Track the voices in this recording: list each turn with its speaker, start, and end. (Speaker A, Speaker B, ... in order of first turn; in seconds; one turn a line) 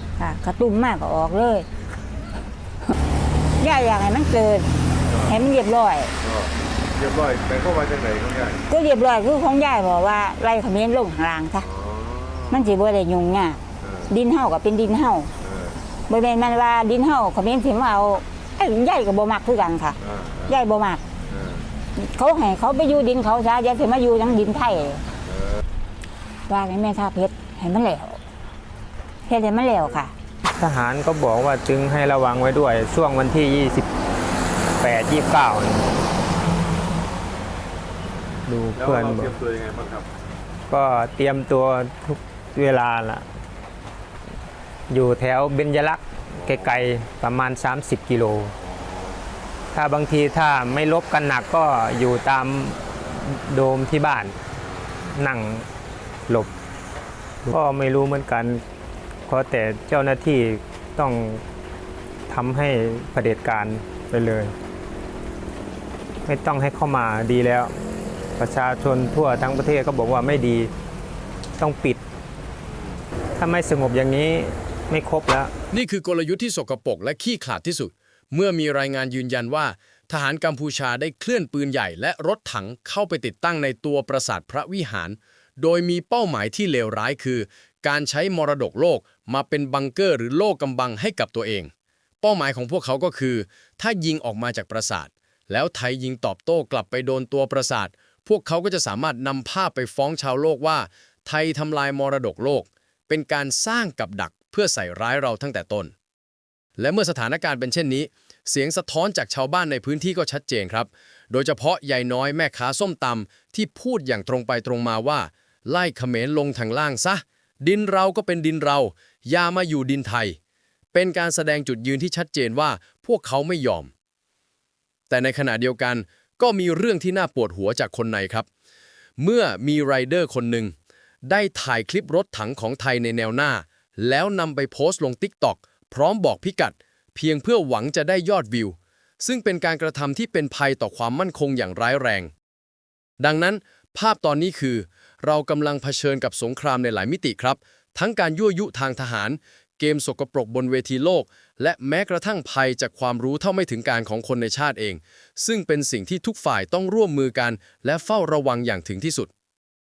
Speaker A: 0.2-1.7
Speaker A: 3.6-6.1
Speaker B: 6.2-8.6
Speaker A: 8.7-11.7
Speaker B: 11.7-12.5
Speaker A: 12.5-15.3
Speaker B: 15.4-15.8
Speaker A: 16.1-21.0
Speaker B: 20.1-20.4
Speaker B: 21.3-21.6
Speaker A: 21.9-25.0
Speaker B: 25.3-25.6
Speaker A: 26.5-28.2
Speaker A: 29.2-30.1
Speaker C: 30.6-33.9
Speaker C: 34.8-35.9
Speaker C: 38.5-39.3
Speaker B: 38.8-40.1
Speaker C: 40.7-43.2
Speaker C: 44.9-48.5
Speaker C: 49.7-54.3
Speaker C: 55.0-55.6
Speaker C: 57.4-58.6
Speaker C: 59.3-61.4
Speaker C: 62.3-64.5
Speaker C: 66.2-67.7
Speaker C: 68.4-70.7
Speaker C: 71.6-72.0
Speaker C: 73.4-75.5
Speaker D: 75.7-91.7
Speaker D: 92.2-105.9
Speaker D: 106.8-120.4
Speaker D: 120.9-123.9
Speaker D: 125.1-128.5
Speaker D: 129.2-130.7
Speaker D: 131.3-142.3
Speaker D: 143.2-159.3